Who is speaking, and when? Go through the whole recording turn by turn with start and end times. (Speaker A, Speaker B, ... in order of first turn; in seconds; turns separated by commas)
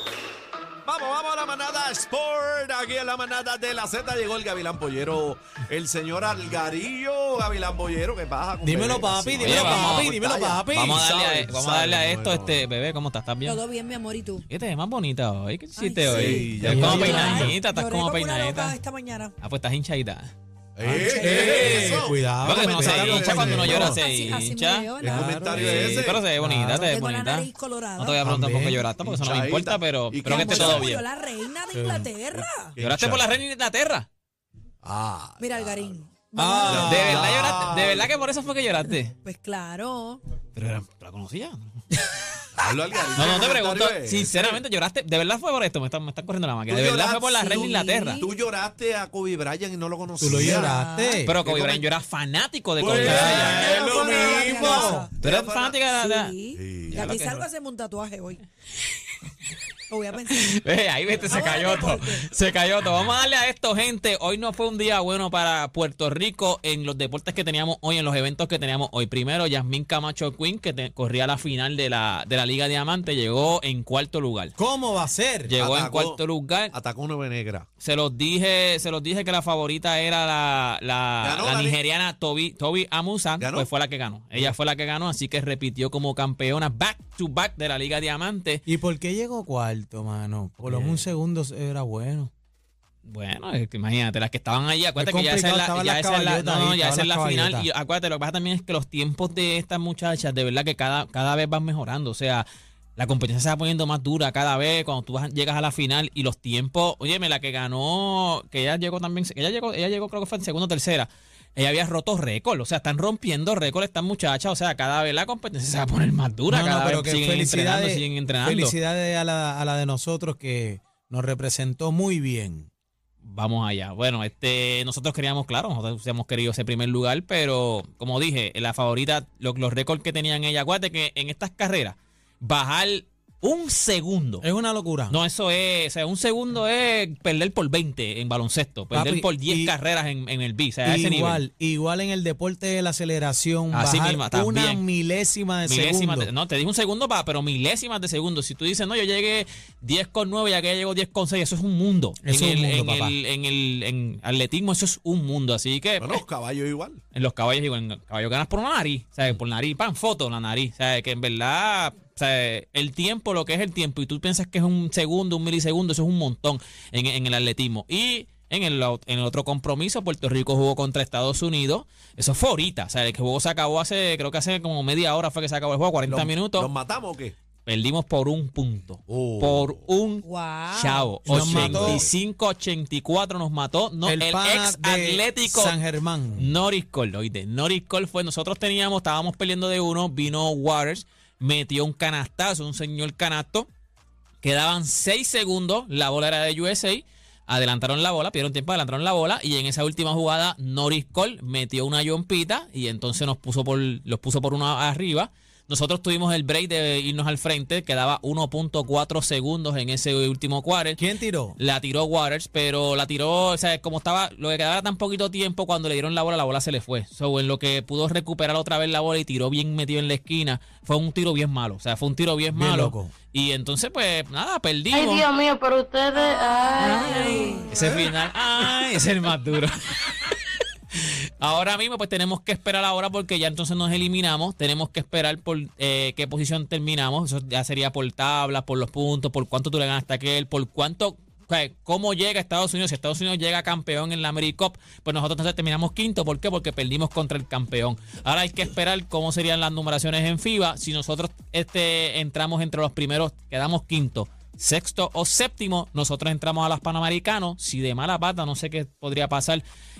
Speaker A: 0.8-12.7, Speaker B: 8.6-11.1, Speaker C: 9.4-10.2, Speaker C: 10.7-13.6, Speaker D: 13.4-14.5, Speaker C: 14.5-18.8, Speaker D: 15.8-19.4, Speaker A: 16.0-17.6, Speaker B: 16.6-17.6, Speaker C: 19.4-20.3, Speaker A: 20.8-24.0, Speaker B: 20.8-23.9, Speaker D: 21.1-21.9, Speaker C: 21.3-31.0, Speaker D: 23.9-25.2, Speaker A: 25.0-26.2, Speaker B: 25.0-26.9, Speaker D: 26.8-28.2, Speaker B: 28.2-28.9, Speaker A: 29.0-31.0, Speaker D: 30.3-32.8, Speaker B: 30.3-30.8, Speaker B: 31.7-32.1, Speaker A: 32.3-33.3, Speaker C: 32.8-34.1, Speaker A: 34.8-36.0, Speaker D: 35.4-36.8, Speaker B: 36.4-37.4, Speaker A: 36.6-38.1, Speaker C: 36.7-39.1, Speaker D: 39.2-40.2, Speaker C: 40.5-42.4, Speaker A: 42.6-44.6, Speaker C: 43.0-48.2, Speaker A: 46.7-50.8, Speaker D: 47.4-48.3, Speaker B: 50.2-51.4, Speaker D: 50.4-51.2, Speaker C: 51.2-53.9, Speaker A: 51.4-51.9, Speaker A: 52.8-55.9, Speaker B: 52.9-55.1, Speaker D: 53.6-55.1, Speaker C: 55.2-56.4, Speaker D: 55.9-58.4, Speaker A: 56.5-57.0, Speaker C: 56.9-57.5, Speaker D: 59.9-60.5, Speaker C: 60.3-74.5, Speaker D: 61.2-62.3, Speaker B: 74.6-75.5, Speaker C: 75.5-76.7, Speaker A: 75.6-76.2, Speaker A: 76.7-77.7, Speaker C: 77.8-88.6, Speaker A: 81.2-81.8, Speaker A: 83.4-83.7, Speaker B: 88.7-92.3, Speaker C: 90.7-91.1, Speaker C: 93.0-102.5, Speaker B: 95.0-97.7, Speaker C: 103.0-118.8, Speaker B: 116.5-122.7, Speaker C: 123.2-134.4, Speaker B: 134.4-135.2, Speaker C: 135.1-141.4, Speaker B: 138.9-139.8, Speaker B: 140.8-146.3, Speaker C: 143.7-144.8, Speaker C: 145.7-156.2, Speaker B: 152.2-153.2, Speaker A: 156.0-157.0, Speaker C: 157.1-176.7, Speaker A: 176.1-177.3, Speaker C: 177.7-185.8, Speaker A: 179.1-179.8, Speaker D: 180.2-181.2, Speaker A: 181.2-182.1, Speaker B: 181.3-182.1, Speaker B: 184.0-186.5, Speaker C: 186.4-193.7, Speaker C: 194.4-211.0, Speaker B: 211.0-211.6, Speaker C: 211.6-225.3, Speaker B: 222.5-223.1, Speaker E: 224.9-227.7, Speaker A: 226.9-227.4, Speaker C: 227.7-259.6